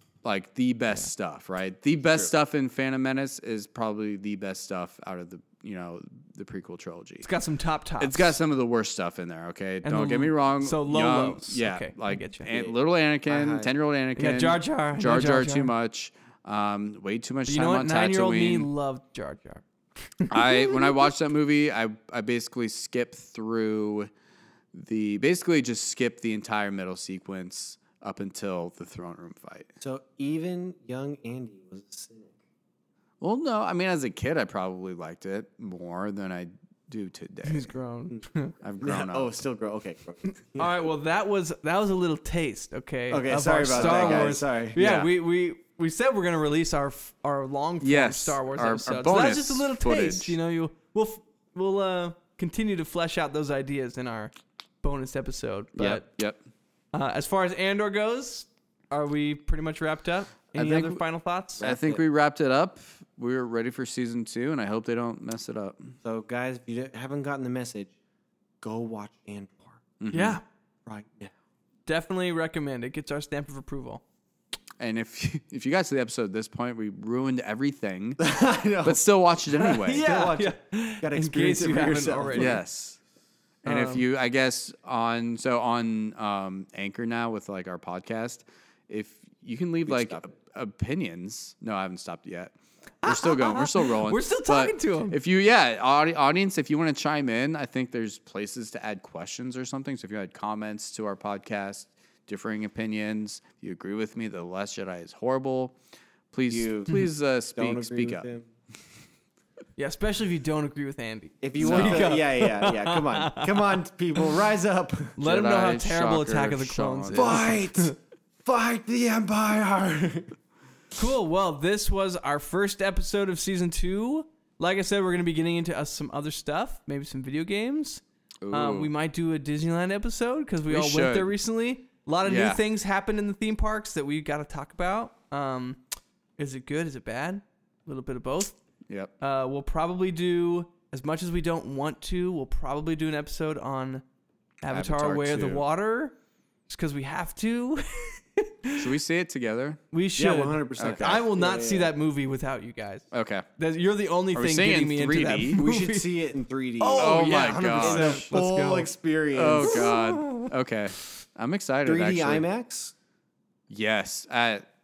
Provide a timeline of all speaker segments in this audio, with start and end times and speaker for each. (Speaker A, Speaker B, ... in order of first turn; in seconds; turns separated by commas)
Speaker A: 0.2-7.3, Speaker B: 7.2-8.4, Speaker A: 8.0-18.7, Speaker B: 9.8-12.5, Speaker C: 12.5-13.7, Speaker B: 14.2-15.7, Speaker B: 17.5-21.0, Speaker A: 20.3-24.1, Speaker A: 24.7-29.7, Speaker C: 29.8-32.4, Speaker A: 33.2-37.7, Speaker B: 37.4-38.5, Speaker A: 38.6-39.4, Speaker C: 38.8-40.8, Speaker B: 40.5-56.1, Speaker C: 43.1-45.0, Speaker A: 43.7-45.1, Speaker A: 47.8-50.4, Speaker A: 55.8-56.4, Speaker B: 56.9-61.7, Speaker A: 60.6-61.0, Speaker C: 61.6-62.0, Speaker A: 61.6-66.0, Speaker C: 66.0-67.9, Speaker C: 68.6-69.9, Speaker A: 70.0-70.4, Speaker B: 70.1-70.4, Speaker C: 70.9-71.3, Speaker B: 71.9-74.0, Speaker A: 74.8-78.3, Speaker C: 78.2-79.0, Speaker A: 78.8-80.1, Speaker B: 79.5-82.6, Speaker C: 80.0-82.6, Speaker A: 82.3-83.0, Speaker A: 83.6-105.8, Speaker B: 83.7-84.0, Speaker C: 89.9-90.3, Speaker B: 93.0-95.2, Speaker A: 106.3-108.3, Speaker C: 106.5-108.5, Speaker B: 109.8-113.8, Speaker C: 111.4-115.2, Speaker A: 111.6-112.1, Speaker B: 115.2-118.0, Speaker A: 115.2-117.5, Speaker C: 117.1-120.3, Speaker B: 121.0-135.8, Speaker A: 128.4-128.9, Speaker A: 130.7-131.3, Speaker A: 132.2-132.6, Speaker B: 136.4-138.6, Speaker B: 139.2-144.0, Speaker B: 144.6-146.2, Speaker A: 144.7-145.6, Speaker B: 146.7-148.9, Speaker A: 148.8-149.8, Speaker B: 149.9-153.1, Speaker C: 150.2-151.9, Speaker A: 150.8-151.2, Speaker A: 153.1-153.5, Speaker B: 153.6-156.1, Speaker A: 154.3-155.6, Speaker C: 155.6-159.9, Speaker B: 156.8-158.9, Speaker A: 157.0-158.3, Speaker A: 159.3-162.4, Speaker B: 159.7-160.5, Speaker C: 161.8-162.9, Speaker A: 163.7-164.6